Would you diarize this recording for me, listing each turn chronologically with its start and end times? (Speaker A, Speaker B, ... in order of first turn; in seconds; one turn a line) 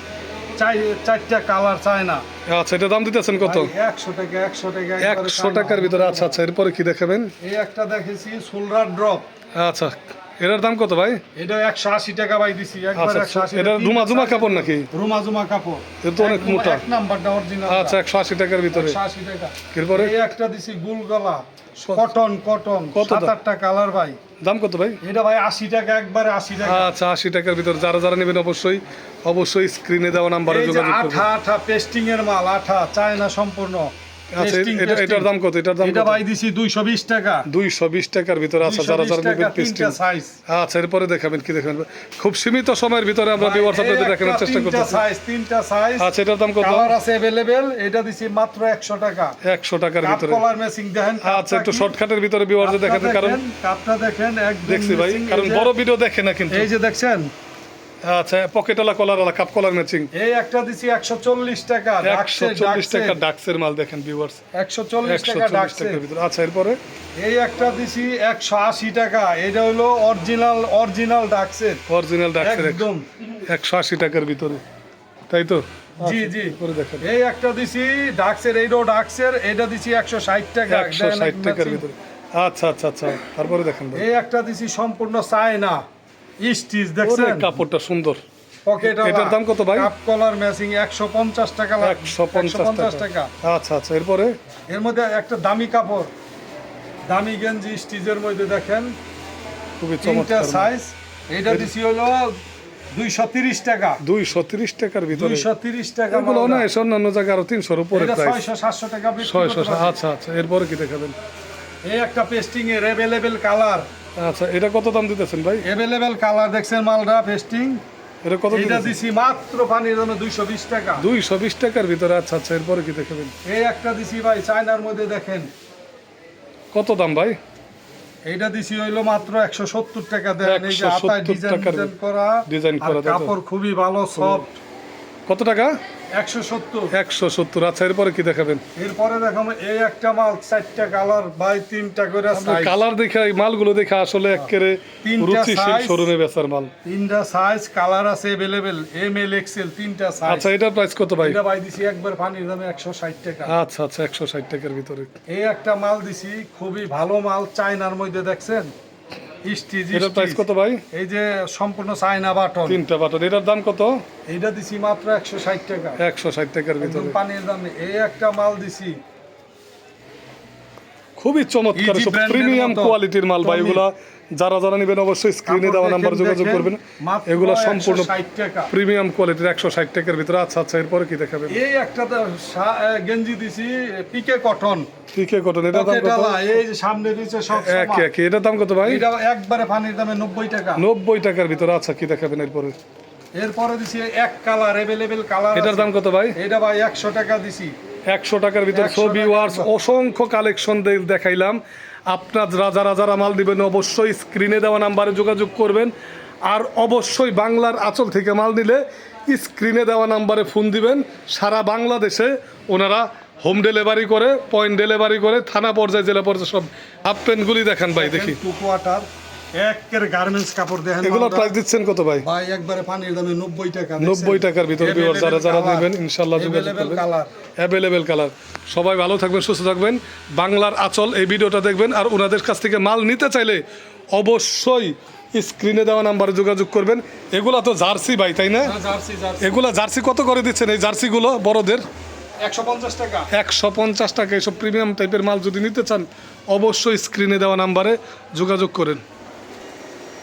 Speaker A: 0.6-2.2
Speaker B: 2.5-3.7
Speaker A: 3.4-6.4
Speaker B: 5.0-7.3
Speaker A: 7.4-9.3
Speaker B: 9.5-11.2
Speaker A: 11.4-18.0
Speaker B: 12.9-14.9
Speaker B: 16.0-16.8
Speaker B: 17.7-19.0
Speaker A: 18.7-24.2
Speaker B: 19.7-20.2
Speaker B: 22.9-23.3
Speaker B: 24.4-25.0
Speaker A: 25.0-26.9
Speaker B: 26.6-31.3
Speaker A: 30.5-35.3
Speaker B: 34.3-36.2
Speaker A: 35.8-37.5
Speaker B: 37.5-40.0
Speaker A: 38.6-40.4
Speaker B: 40.5-45.0
Speaker A: 43.4-49.4
Speaker B: 46.0-47.0
Speaker B: 49.4-50.4
Speaker A: 50.0-52.0
Speaker B: 51.2-53.4
Speaker A: 52.6-55.7
Speaker B: 54.7-56.7
Speaker A: 56.5-57.3
Speaker B: 58.0-60.1
Speaker A: 60.1-63.2
Speaker B: 62.0-64.4
Speaker A: 64.5-66.0
Speaker B: 65.0-66.8
Speaker A: 67.2-71.8
Speaker B: 71.9-72.9
Speaker A: 72.4-73.1
Speaker B: 73.5-74.6
Speaker B: 75.3-77.1
Speaker A: 76.0-81.9
Speaker B: 80.7-84.0
Speaker A: 83.9-85.8
Speaker A: 86.4-87.5
Speaker B: 87.0-88.2
Speaker A: 88.7-93.3
Speaker B: 88.8-89.9
Speaker B: 91.8-94.3
Speaker A: 94.7-96.1
Speaker A: 97.1-99.0
Speaker B: 99.8-100.7
Speaker A: 100.0-102.3
Speaker A: 102.9-104.0
Speaker B: 104.0-105.5
Speaker A: 105.1-106.7
Speaker B: 106.1-108.4
Speaker A: 107.9-110.0
Speaker B: 109.2-111.2
Speaker A: 111.8-113.9
Speaker B: 114.2-115.6
Speaker A: 115.6-117.8
Speaker B: 118.2-118.9
Speaker A: 118.5-121.0
Speaker B: 121.0-123.3
Speaker A: 123.5-125.5
Speaker B: 126.7-127.4
Speaker A: 128.3-134.5
Speaker B: 130.4-131.9
Speaker B: 132.5-133.3
Speaker B: 134.2-134.4
Speaker B: 135.3-135.8
Speaker A: 136.2-136.9
Speaker B: 136.9-138.6
Speaker A: 138.8-142.8
Speaker B: 142.3-146.7
Speaker A: 145.0-146.1
Speaker A: 146.8-150.5
Speaker B: 150.3-151.4
Speaker A: 151.2-153.5
Speaker B: 153.5-155.1
Speaker A: 155.3-158.7
Speaker A: 159.5-162.8
Speaker B: 159.9-160.8
Speaker B: 162.7-164.0
Speaker A: 164.3-166.0
Speaker B: 166.0-167.2
Speaker A: 166.8-169.0
Speaker B: 171.2-178.1
Speaker A: 171.8-173.8
Speaker A: 175.5-178.7
Speaker B: 178.7-181.6
Speaker A: 181.5-184.9
Speaker B: 185.1-186.6
Speaker A: 185.7-188.1
Speaker B: 187.5-189.0
Speaker A: 188.8-190.8
Speaker B: 190.8-192.8
Speaker A: 193.3-197.8
Speaker B: 195.5-196.4
Speaker B: 198.1-205.9
Speaker A: 198.7-199.7
Speaker B: 206.4-218.4
Speaker A: 217.9-221.5
Speaker B: 221.0-222.2
Speaker A: 222.2-227.3
Speaker B: 224.0-227.0
Speaker B: 227.6-233.6
Speaker B: 234.1-238.8
Speaker A: 238.6-239.5
Speaker B: 239.4-241.8
Speaker A: 242.4-243.3
Speaker B: 243.3-249.0